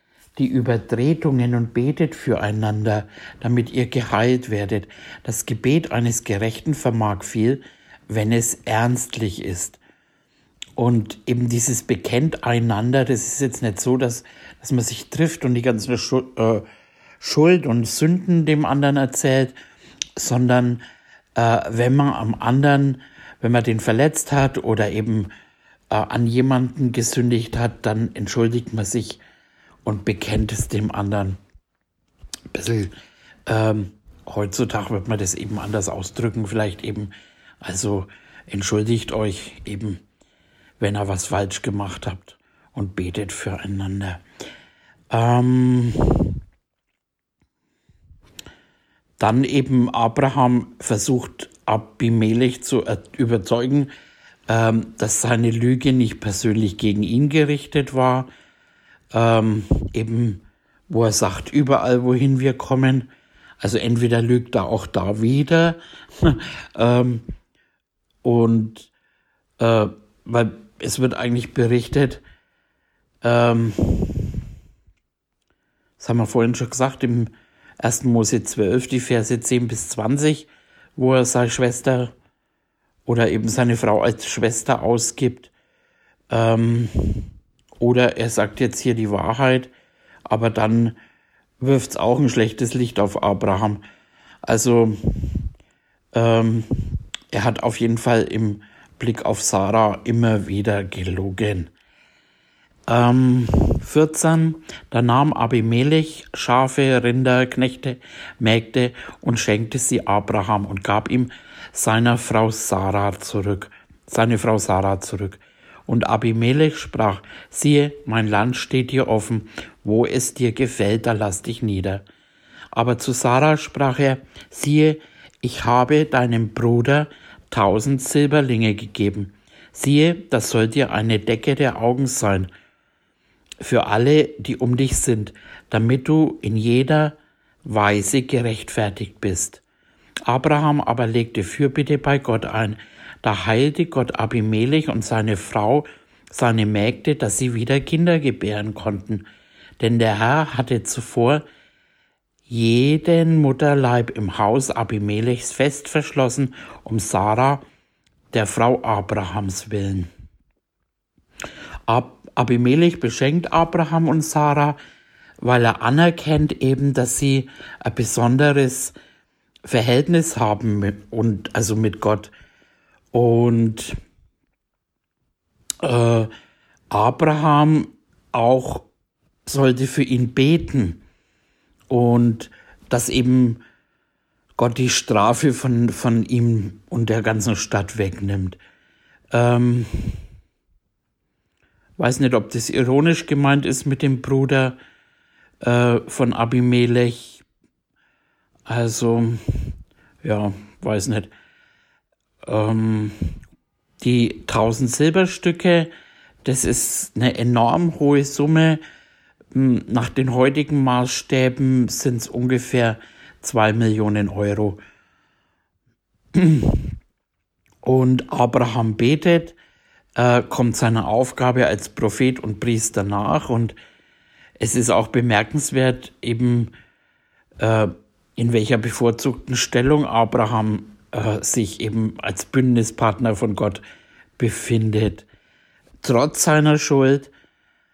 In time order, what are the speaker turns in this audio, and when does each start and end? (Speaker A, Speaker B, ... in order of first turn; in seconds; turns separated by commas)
Speaker A: 0.3-9.8, Speaker A: 10.8-16.6, Speaker A: 17.2-19.6, Speaker A: 20.2-20.8, Speaker A: 21.4-25.3, Speaker A: 25.9-29.2, Speaker A: 29.8-31.4, Speaker A: 32.5-32.9, Speaker A: 33.5-37.1, Speaker A: 37.6-40.0, Speaker A: 40.8-44.2, Speaker A: 45.1-46.4, Speaker A: 49.2-53.9, Speaker A: 54.5-58.3, Speaker A: 59.1-63.1, Speaker A: 63.6-67.2, Speaker A: 68.2-68.9, Speaker A: 69.6-72.2, Speaker A: 73.2-74.4, Speaker A: 76.0-82.1, Speaker A: 83.0-85.5, Speaker A: 86.3-89.7, Speaker A: 90.3-91.0, Speaker A: 91.6-93.8, Speaker A: 94.5-95.5, Speaker A: 96.1-101.7, Speaker A: 102.9-122.0, Speaker A: 122.7-132.5, Speaker A: 133.6-139.6, Speaker A: 140.3-149.2, Speaker A: 149.8-151.4, Speaker A: 152.5-157.6, Speaker A: 158.3-160.1, Speaker A: 161.9-164.8, Speaker A: 165.4-168.9, Speaker A: 169.6-172.3, Speaker A: 173.1-174.0, Speaker A: 175.8-176.3, Speaker A: 176.9-178.9, Speaker A: 179.4-181.0, Speaker A: 181.9-183.6, Speaker A: 184.6-188.6, Speaker A: 189.3-190.2, Speaker A: 192.0-194.8, Speaker A: 195.6-197.4, Speaker A: 198.7-201.3, Speaker A: 202.4-203.4, Speaker A: 204.0-205.9, Speaker A: 206.4-208.8, Speaker A: 209.5-214.8, Speaker A: 216.3-217.0, Speaker A: 217.8-219.6, Speaker A: 220.2-223.8, Speaker A: 224.6-226.7, Speaker A: 227.6-233.8, Speaker A: 234.4-235.2, Speaker A: 236.0-237.3